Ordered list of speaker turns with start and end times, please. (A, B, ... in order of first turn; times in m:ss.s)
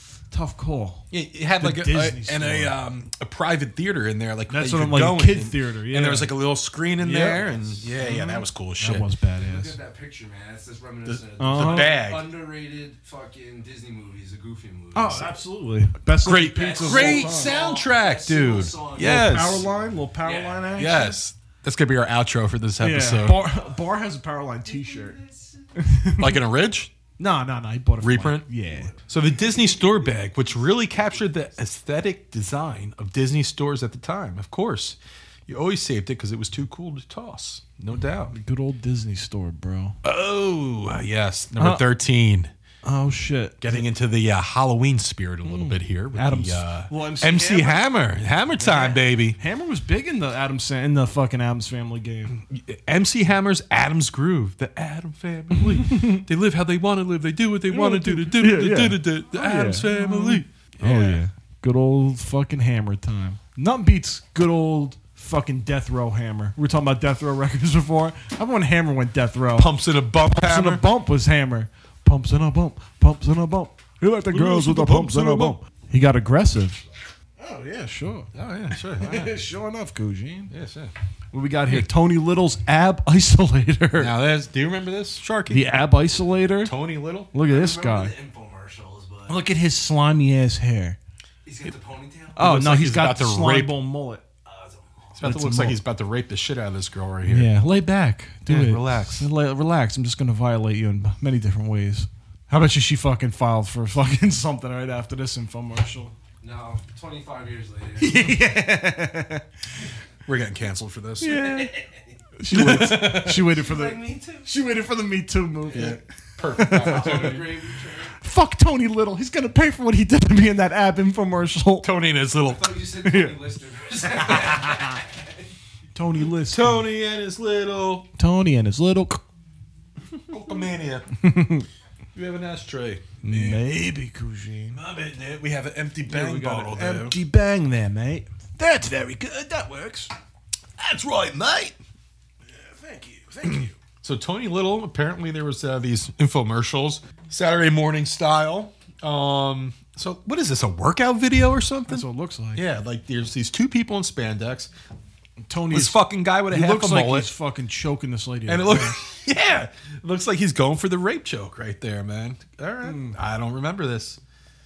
0:00.3-0:02.8 A
0:01.1-0:09.0 B
0:04.5-0:06.4 A
0:07.0-0:09.8 A
0:09.4-0:15.4 C
0:11.0-0:12.3 B
0:11.4-0:12.0 A
0:14.9-0:17.6 A
0:16.2-0:19.6 B
0:16.4-0:21.2 C
0:19.0-0:21.2 A
0:20.7-0:23.4 B
0:22.8-0:25.2 A
0:24.7-0:25.6 C
0:25.8-0:26.4 A
0:26.2-0:26.9 B
0:27.2-0:28.9 A
0:28.0-0:28.4 B
0:28.7-0:31.6 C
0:29.1-0:38.3 B
0:38.3-0:40.0 A
0:40.0-0:42.5 B
0:41.6-0:41.9 A
0:42.8-0:43.8 A
0:43.6-0:49.4 B
0:45.4-0:47.9 A
0:48.6-0:52.4 A
0:52.3-1:01.2 B
0:55.6-0:56.2 A
0:57.7-1:16.8 A
1:09.5-1:10.9 B
1:14.3-1:15.6 B
1:17.4-1:18.3 A
1:18.3-1:19.4 B
1:19.0-1:20.5 A
1:20.5-1:20.9 B
1:21.3-1:24.1 A
1:24.0-1:25.8 B
1:25.5-1:26.8 A
1:26.6-1:27.3 B
1:27.3-1:28.1 A
1:27.4-1:29.4 C
1:29.3-1:31.0 A
1:31.4-1:32.4 C
1:32.4-1:34.2 A
1:32.4-1:33.8 B
1:34.4-1:35.2 C
1:35.2-1:37.5 B
1:35.2-1:35.8 A
1:37.2-1:46.1 A
1:38.5-1:39.3 B
1:46.4-1:48.5 C
1:48.0-1:49.4 A
1:50.2-1:51.5 B
1:51.2-1:51.7 A
1:51.4-1:52.0 C
1:52.4-1:57.4 A
1:52.5-1:53.5 B
1:53.3-1:54.5 C
1:55.7-1:58.2 C
1:55.7-1:57.5 B
1:58.2-2:01.9 A
2:01.8-2:02.8 B
2:02.4-2:05.5 C
2:03.0-2:03.4 A
2:04.2-2:04.8 A
2:05.9-2:06.9 A
2:06.4-2:08.1 B
2:08.2-2:09.2 A
2:10.3-2:11.0 B
2:11.2-2:11.7 A
2:12.1-2:13.6 B
2:13.2-2:14.8 A
2:14.7-2:17.2 B
2:16.1-2:20.1 A
2:20.8-2:21.8 B
2:22.5-2:23.7 A
2:24.0-2:34.7 B
2:31.9-2:32.6 A
2:35.4-2:39.0 A
2:35.7-2:37.3 B
2:38.5-2:44.2 B
2:42.8-2:43.2 A